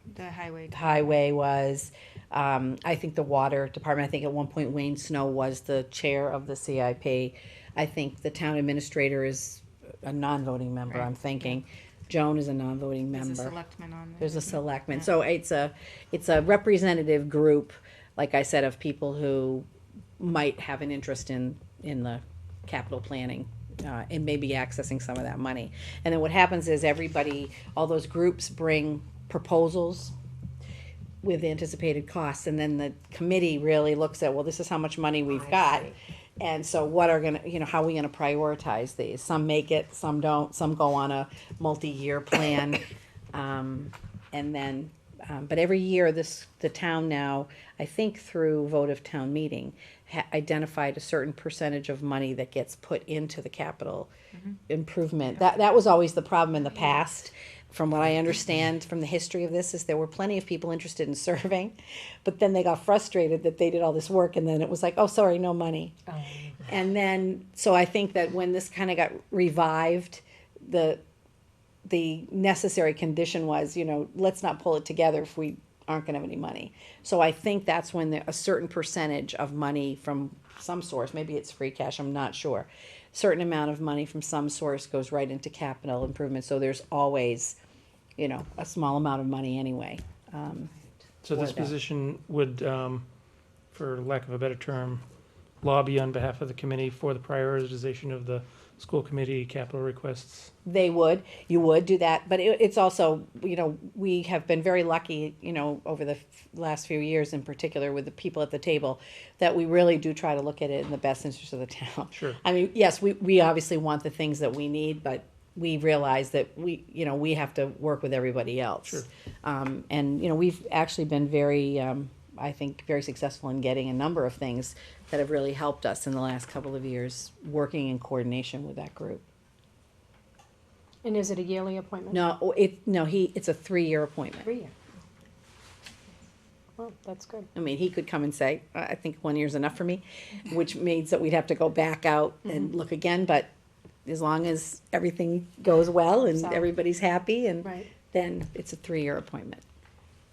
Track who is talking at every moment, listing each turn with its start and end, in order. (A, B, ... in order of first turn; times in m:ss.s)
0:00.1-0:01.1 A
0:00.7-0:13.6 B
0:13.1-0:15.1 A
0:14.2-0:19.7 B
0:20.2-0:30.1 B
0:31.2-0:54.1 B
0:54.7-1:06.0 B
1:06.6-1:11.0 B
1:11.8-1:27.6 B
1:28.2-1:30.7 B
1:31.2-1:33.0 C
1:31.3-1:31.7 B
1:33.7-1:35.0 C
1:35.6-1:40.5 C
1:40.6-2:09.2 B
1:52.1-1:52.4 C
2:11.0-2:12.2 D
2:12.1-2:14.5 B
2:16.8-2:17.5 D
2:17.5-2:23.5 B
2:24.0-2:29.6 B
2:26.4-2:26.7 D